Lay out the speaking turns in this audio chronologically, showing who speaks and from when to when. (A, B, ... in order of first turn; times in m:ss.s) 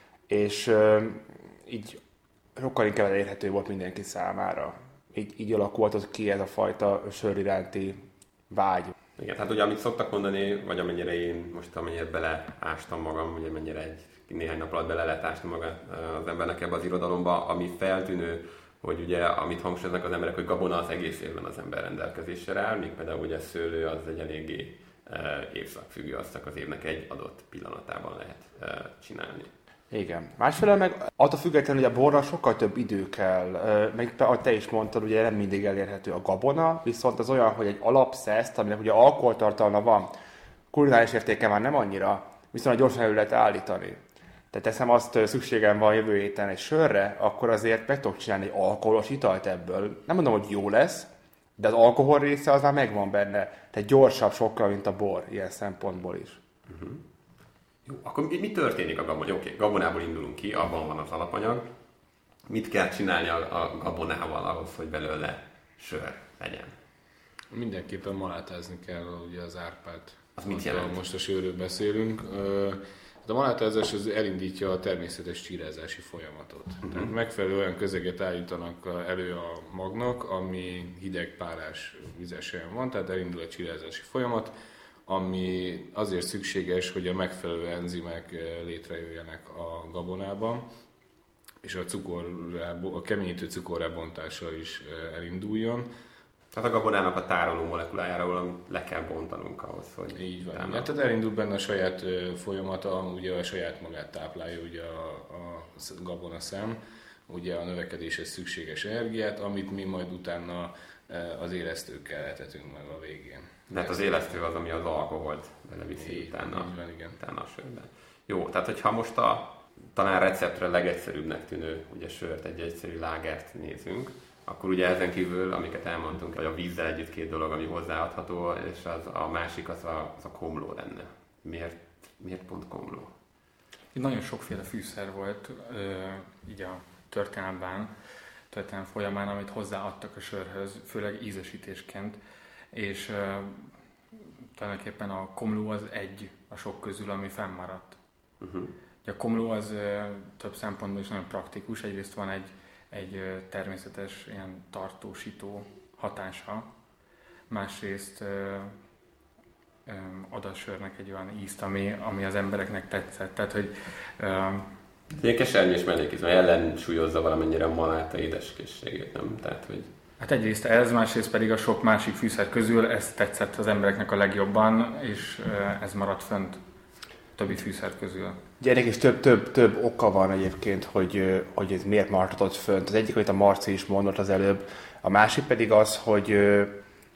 0:00.3-0:02.0 A
0:02.6-0:08.9 A
0:09.2-0:29.5 B
0:29.9-0:40.1 A
0:40.7-0:44.0 A
0:44.5-0:56.4 A
0:56.7-0:57.0 B
0:57.9-1:01.7 B
1:02.5-1:06.8 B
1:07.5-1:24.5 C
1:10.4-1:11.0 B
1:16.8-1:17.1 B
1:25.1-1:30.6 C
1:31.6-1:35.9 C
1:36.5-1:40.9 B
1:40.1-1:54.1 C
1:53.7-2:13.1 B
1:56.0-1:57.2 C
2:13.9-2:17.9 D
2:18.5-2:22.2 D
2:22.7-2:23.6 D
2:24.6-2:28.0 D
2:28.4-2:28.7 B
2:29.0-2:36.7 D
2:37.5-2:38.7 D
2:39.9-2:44.7 D
2:45.1-2:49.9 B
2:50.2-2:56.6 D
2:57.4-2:58.4 D
2:58.6-3:06.7 A